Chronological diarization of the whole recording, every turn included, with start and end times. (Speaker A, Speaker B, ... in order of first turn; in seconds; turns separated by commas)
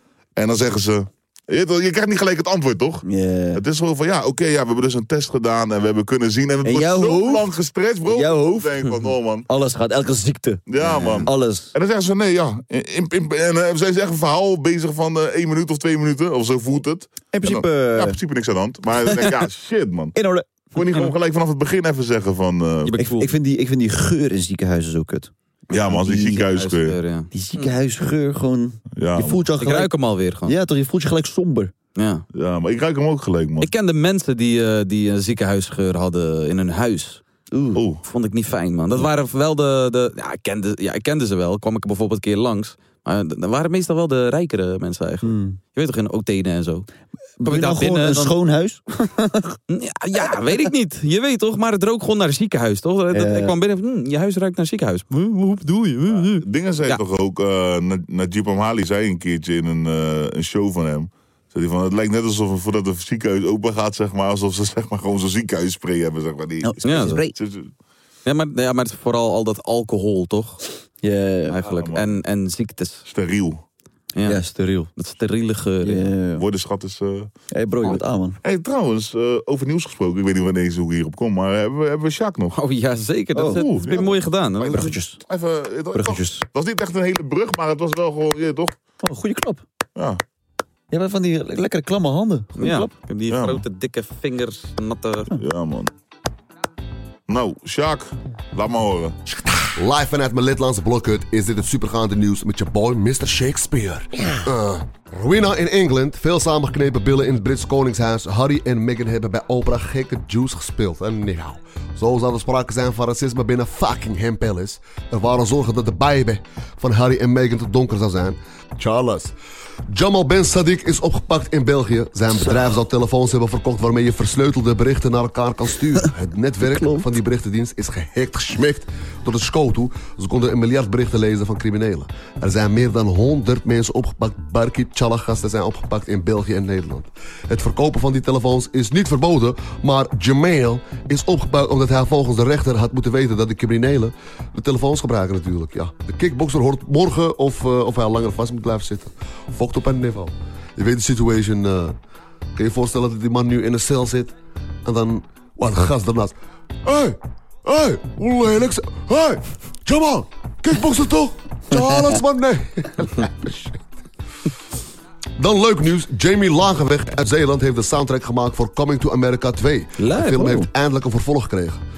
Speaker A: 0.4-9.5, Speaker B: 3.0-3.6, Speaker B: 6.6-7.5, Speaker B: 8.1-8.9, Speaker B: 9.5-11.8, Speaker A: 10.7-20.1, Speaker C: 10.8-11.3, Speaker B: 17.3-18.2, Speaker B: 19.1-19.3, Speaker B: 20.1-20.5, Speaker A: 20.7-23.0, Speaker C: 22.9-23.3, Speaker B: 23.0-25.3, Speaker A: 25.7-27.0, Speaker B: 25.8-26.4, Speaker C: 26.1-27.7, Speaker B: 27.3-29.9, Speaker A: 29.0-29.4, Speaker C: 29.6-30.6, Speaker B: 30.4-31.7, Speaker C: 32.0-32.2, Speaker A: 32.3-33.7, Speaker C: 33.6-37.2, Speaker B: 37.5-37.8, Speaker A: 37.8-38.0, Speaker C: 38.0-46.9, Speaker B: 45.2-45.6, Speaker B: 47.4-49.6, Speaker C: 47.4-48.3, Speaker C: 49.7-57.0, Speaker B: 53.1-53.5, Speaker A: 56.3-67.7, Speaker B: 66.6-67.3, Speaker C: 66.8-67.2, Speaker C: 68.3-70.6, Speaker B: 71.0-71.6, Speaker C: 71.5-73.0, Speaker A: 71.7-72.2, Speaker A: 73.1-73.6, Speaker C: 74.2-74.4, Speaker B: 74.2-74.9, Speaker C: 75.0-76.1, Speaker B: 75.8-76.5, Speaker A: 76.4-77.3, Speaker B: 77.5-78.4, Speaker A: 78.4-82.6, Speaker C: 82.5-85.0, Speaker B: 83.3-83.7, Speaker A: 83.5-88.7, Speaker B: 84.7-85.2, Speaker B: 85.9-86.5, Speaker B: 89.0-89.6, Speaker A: 90.0-90.2, Speaker B: 90.9-92.9, Speaker C: 92.6-95.3, Speaker A: 93.3-93.6, Speaker A: 95.3-95.9, Speaker A: 97.3-99.2, Speaker D: 99.8-119.3, Speaker D: 119.9-152.0, Speaker B: 126.6-127.1, Speaker D: 152.6-154.3, Speaker D: 154.8-163.8, Speaker D: 165.4-171.8, Speaker C: 170.0-170.7